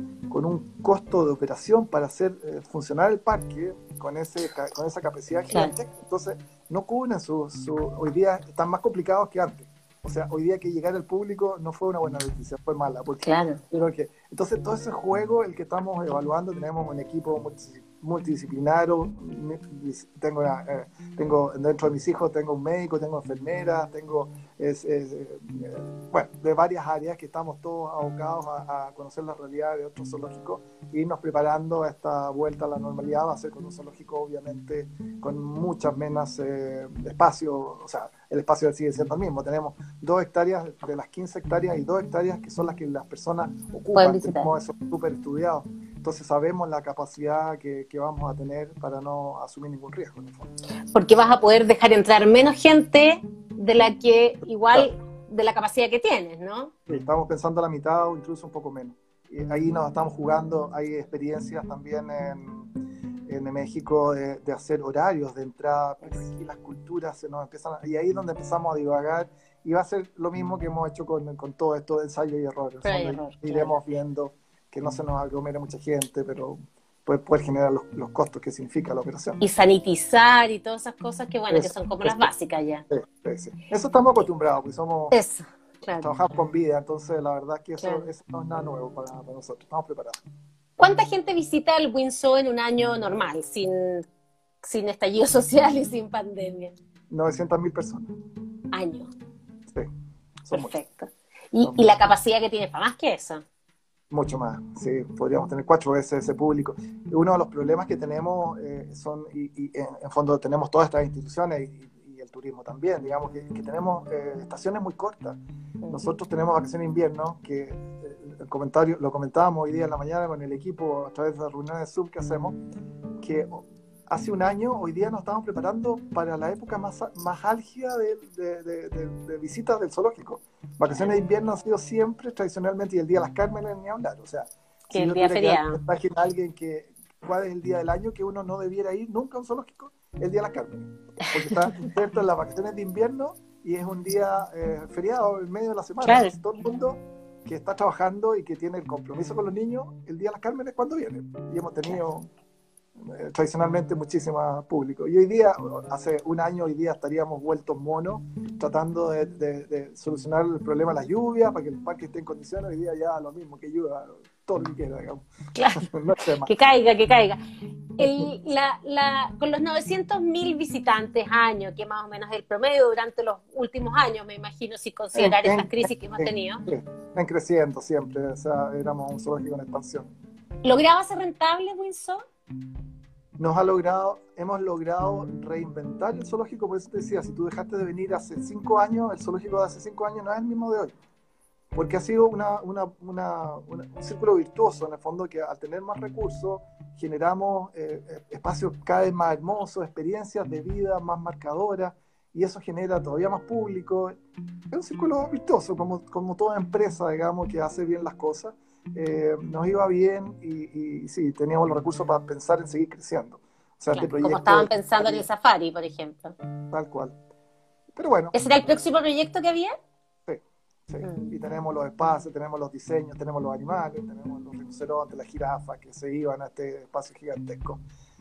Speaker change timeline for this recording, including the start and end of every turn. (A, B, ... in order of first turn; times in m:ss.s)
0:00.3-0:50.5 A
0:13.2-0:13.6 B
0:44.0-0:44.5 B
0:50.9-0:56.7 B
0:56.9-1:02.7 A
1:03.3-1:19.4 A
1:12.8-1:13.8 B
1:19.4-1:22.8 B
1:21.5-1:22.3 A
1:22.9-1:25.2 A
1:25.1-1:26.1 B
1:26.0-1:30.2 A
1:27.8-1:28.1 B
1:30.8-1:34.1 B
1:34.6-1:36.8 B
1:37.1-1:38.1 A
1:38.7-1:39.1 B
1:40.5-1:40.8 A
1:40.5-1:43.4 B
1:44.1-2:02.6 A
2:03.2-2:32.3 A
2:14.9-2:15.8 B
2:21.4-2:21.9 B
2:26.0-2:26.3 B
2:33.0-2:46.5 A
2:45.6-2:45.9 B
2:46.4-2:47.4 B
2:48.0-2:56.6 B
2:48.0-2:48.3 A
2:55.2-3:00.1 A
3:00.6-3:02.2 B
3:03.4-3:11.0 A
3:11.7-3:24.2 A
3:24.7-3:35.3 A
3:33.9-3:36.4 B
3:36.7-3:37.1 A
3:38.0-3:38.4 A
3:38.3-3:39.7 B
3:40.3-3:47.8 A
3:41.0-3:41.3 B